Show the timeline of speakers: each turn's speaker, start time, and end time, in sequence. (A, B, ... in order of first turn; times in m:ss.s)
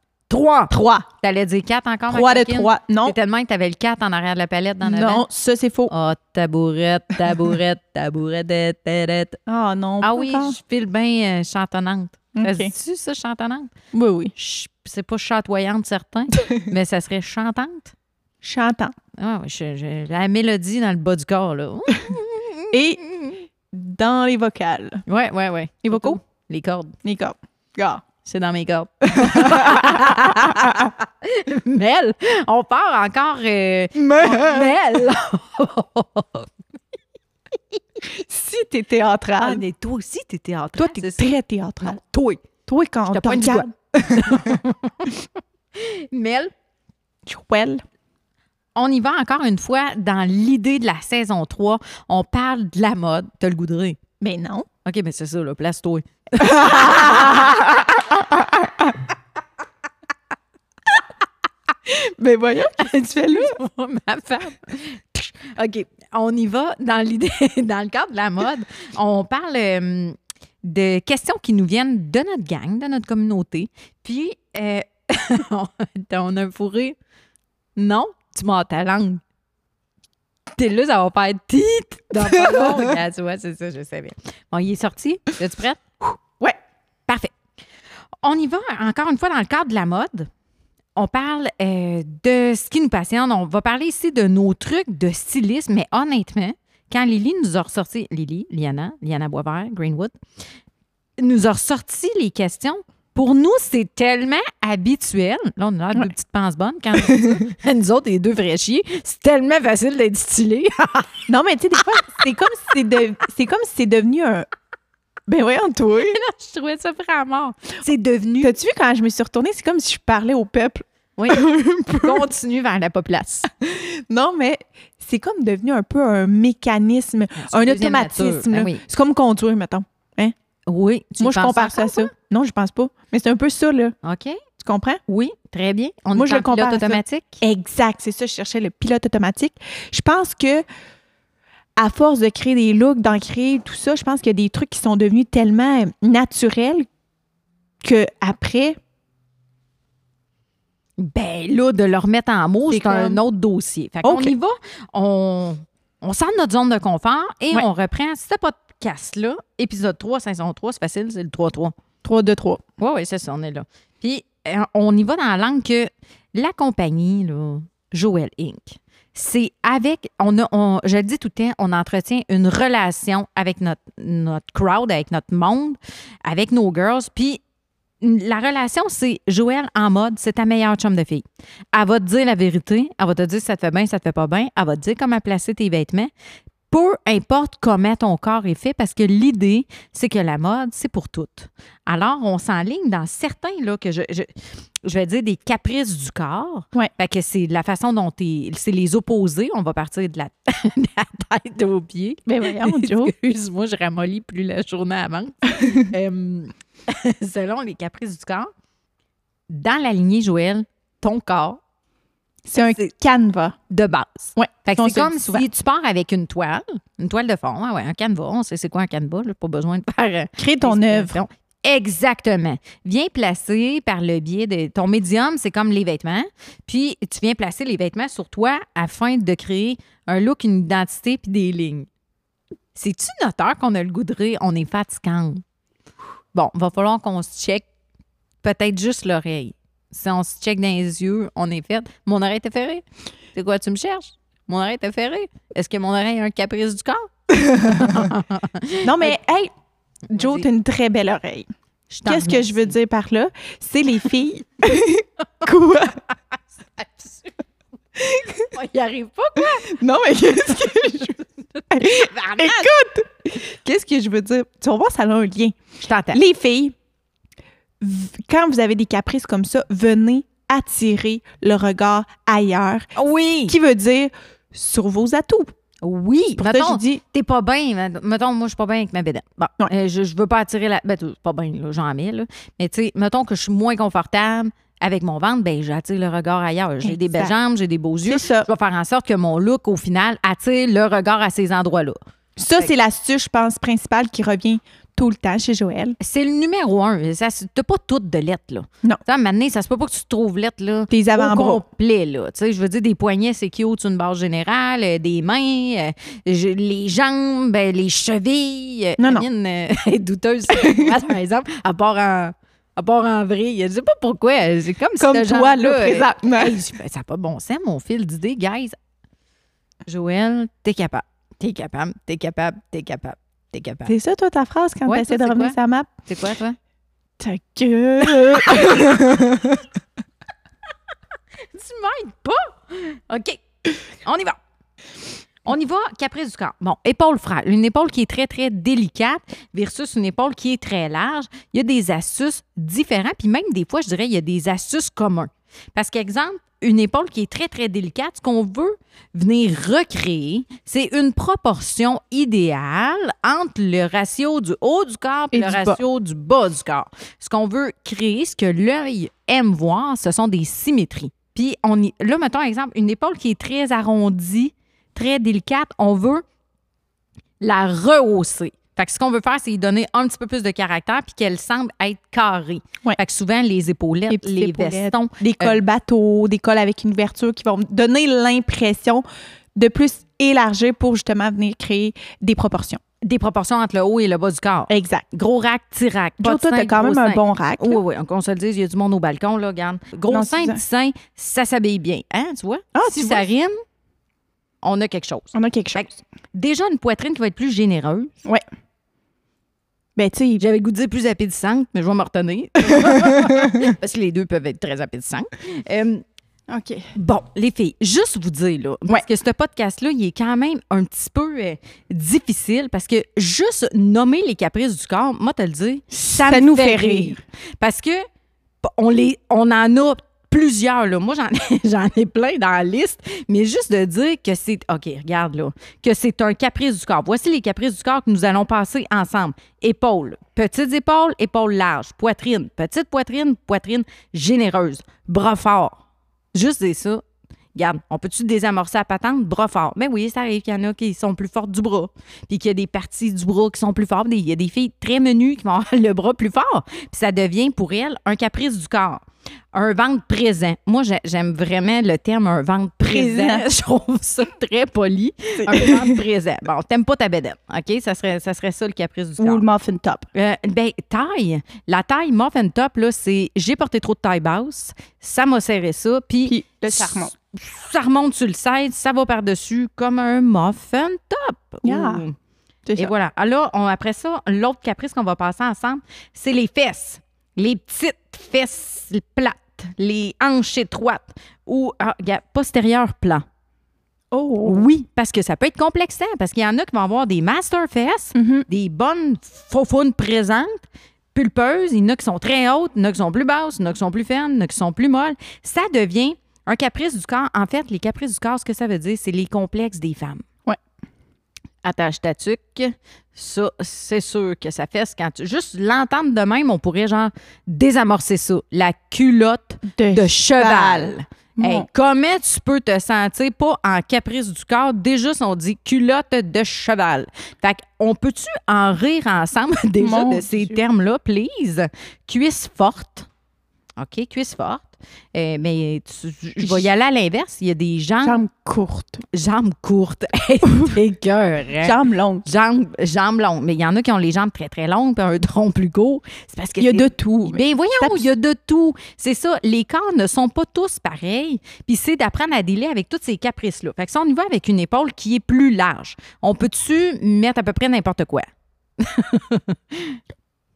0:00.3-0:05.3 A
0:00.7-0:01.1 B
0:02.1-0:03.2 B
0:04.8-0:05.9 B
0:05.9-0:09.4 A
0:09.5-0:10.6 B
0:10.0-0:13.7 A
0:12.4-0:12.7 B
0:13.9-0:14.3 B
0:14.4-0:17.9 A
0:18.4-0:18.9 B
0:19.2-0:23.3 A
0:22.7-0:25.0 B
0:25.1-0:27.0 A
0:25.8-0:26.2 B
0:27.0-0:28.0 B
0:28.2-0:36.5 A
0:29.1-0:30.9 B
0:34.0-0:34.8 B
0:38.1-0:39.6 B
0:39.4-0:41.3 A
0:40.8-0:42.0 B
0:41.8-0:42.4 A
0:42.7-0:44.6 B
0:43.1-0:45.2 A
0:45.7-0:46.5 A
0:47.3-0:47.8 B
0:48.8-0:54.0 A
0:54.2-0:54.7 B
0:54.8-0:57.8 A
0:56.4-0:59.0 B
1:01.9-1:03.6 B
1:02.8-1:17.0 A
1:17.8-1:19.2 A
1:20.6-1:25.8 A
1:22.2-1:22.9 B
1:27.1-1:27.3 A
1:28.2-1:30.3 A
1:31.0-1:40.1 A
1:41.2-1:51.2 A
1:47.0-1:47.4 B
1:51.3-1:54.5 B
1:55.3-1:56.2 B
1:56.0-1:58.6 A
1:58.4-2:02.3 B
2:01.2-2:03.5 A
2:03.6-2:10.4 B
2:07.4-2:08.8 A
2:10.7-2:12.1 A
2:11.2-2:14.0 B
2:14.0-2:14.4 A
2:14.6-2:15.0 B
2:15.1-2:17.4 A
2:16.1-2:20.6 B
2:21.8-2:26.9 B
2:27.8-2:28.8 B
2:31.0-2:41.7 A
2:32.7-2:33.2 B
2:34.0-2:34.3 B
2:42.0-2:42.6 B
2:42.8-2:57.4 A
2:58.0-3:06.1 A
3:06.7-3:14.3 A
3:14.8-3:28.5 A
3:22.3-3:23.1 B
3:29.5-3:31.6 A
3:32.4-3:33.6 B
3:33.7-3:51.9 A
3:34.4-3:35.5 B
3:40.4-3:41.2 B
3:52.8-3:55.4 A
3:56.3-3:57.7 A
3:58.4-4:02.8 A
4:03.4-4:09.2 A
4:07.4-4:08.0 B
4:08.8-4:09.5 B
4:10.1-4:10.5 A
4:10.1-4:11.5 B
4:11.9-4:12.7 A
4:12.1-4:16.0 B
4:16.1-4:17.3 A
4:18.0-4:18.5 B
4:18.4-4:19.7 A
4:19.6-4:21.1 B
4:20.7-4:22.7 A
4:21.7-4:25.6 B
4:25.8-4:26.2 A
4:26.1-4:26.8 B
4:27.8-4:32.9 B
4:33.0-4:33.6 A
4:33.5-4:35.5 B
4:35.8-4:52.0 A
4:36.4-4:37.0 B
4:46.8-4:47.4 B
4:48.1-4:48.5 B
4:52.4-4:56.0 B
4:56.0-5:18.8 A
5:00.9-5:01.6 B
5:09.0-5:09.3 B
5:10.5-5:11.0 B
5:15.0-5:16.6 B
5:19.9-5:23.9 A
5:23.9-5:25.9 B
5:24.9-5:26.6 A
5:27.2-5:29.6 B
5:28.3-5:28.9 A
5:31.5-5:33.4 A
5:34.0-5:34.4 A
5:35.5-6:06.2 A
5:55.3-5:55.8 B
6:07.4-6:15.6 A
6:14.1-6:22.8 B
6:23.0-6:33.5 A
6:24.7-6:25.0 B
6:26.2-6:27.8 B
6:30.1-6:30.6 B
6:32.8-6:33.2 B
6:34.6-6:38.2 A
6:35.3-6:35.9 B
6:40.0-6:40.4 B
6:40.4-6:46.0 A
6:42.8-6:43.5 B
6:46.5-6:46.9 B
6:47.0-6:58.0 A
6:55.9-6:57.2 B
6:58.6-7:15.8 A
7:16.3-7:17.0 A
7:17.6-7:29.0 A
7:29.5-7:39.4 A
7:32.9-7:33.4 B
7:35.4-7:36.0 B
7:39.2-7:40.1 B
7:40.1-7:52.2 A
7:46.2-7:47.1 B
7:51.6-7:52.0 B
7:52.7-7:52.9 B
7:52.8-8:03.2 A
8:04.1-8:04.6 B
8:04.4-8:20.2 A
8:08.2-8:08.4 B
8:21.6-8:43.1 A
8:29.8-8:31.7 B
8:39.8-8:40.6 B
8:43.8-8:48.2 A
8:48.0-8:49.0 B
8:49.1-9:08.3 A
8:51.6-8:52.3 B
8:56.6-8:58.1 B
9:08.8-9:10.0 A